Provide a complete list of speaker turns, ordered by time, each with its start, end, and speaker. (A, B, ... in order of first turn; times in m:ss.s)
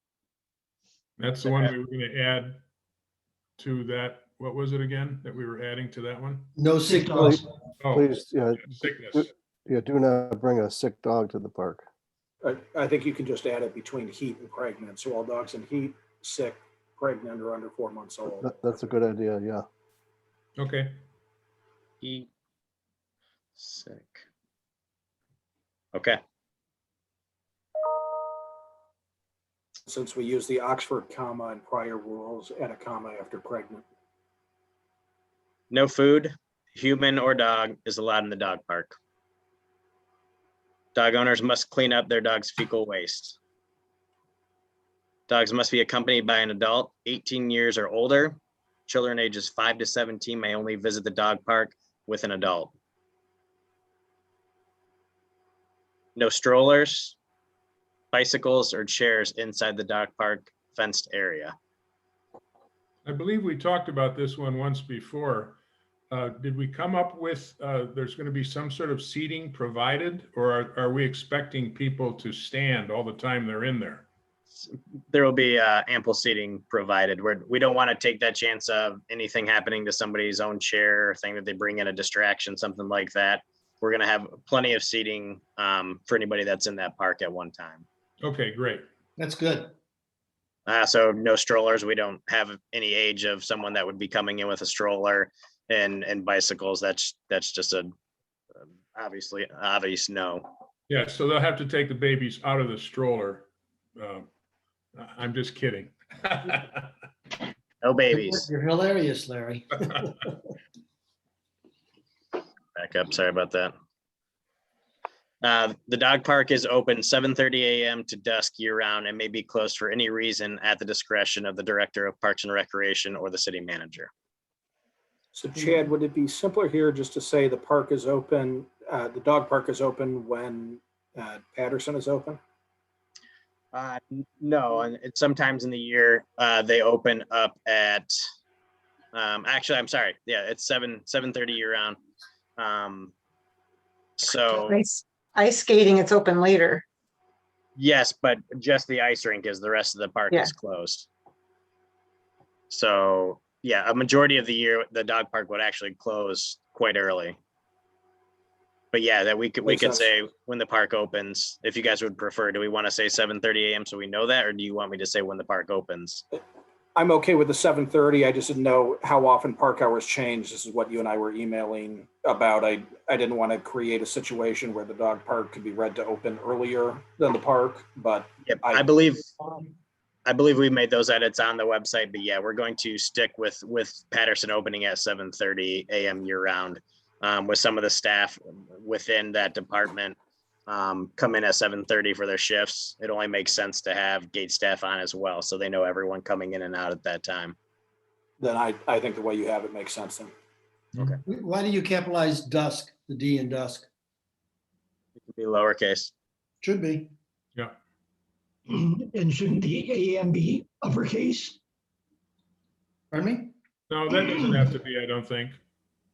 0:01.2-0:02.6 A
0:03.6-0:06.5 A
0:06.6-0:07.4 B
0:06.9-0:07.4 C
0:07.2-0:11.8 D
0:07.8-0:09.3 A
0:12.4-0:18.9 E
0:18.4-0:19.6 D
0:20.6-0:21.0 A
0:22.0-0:22.3 F
0:23.6-0:24.2 F
0:25.9-0:26.2 F
0:29.9-0:33.8 E
0:35.7-0:38.9 F
0:40.9-0:43.4 F
0:45.3-0:52.7 F
0:56.2-0:57.2 F
0:58.1-1:01.5 F
1:03.0-1:05.6 A
1:06.1-1:14.1 A
1:14.6-1:27.8 F
1:28.2-1:28.8 A
1:29.2-1:29.7 B
1:30.6-1:37.9 F
1:38.9-1:40.5 F
1:40.9-1:44.3 A
1:44.9-1:46.9 A
1:47.8-1:48.4 F
1:48.1-1:50.3 B
1:52.7-1:53.7 F
1:55.4-2:04.1 F
2:05.3-2:12.4 E
2:13.7-2:18.1 F
2:19.1-2:22.0 F
2:22.6-2:23.1 F
2:24.2-2:24.8 F
2:24.5-2:26.8 G
2:27.8-2:31.1 F
2:32.7-2:37.4 F
2:38.9-2:46.2 F
2:39.6-2:40.1 E
2:47.0-2:59.0 E
2:58.4-2:59.2 F
3:00.2-3:10.2 F
3:10.7-3:17.6 F
3:18.4-3:20.3 E
3:21.2-3:23.9 B
3:25.2-3:26.1 F
3:26.6-3:27.1 B
3:28.7-3:31.6 C
3:33.1-3:33.5 B
3:33.9-3:35.6 A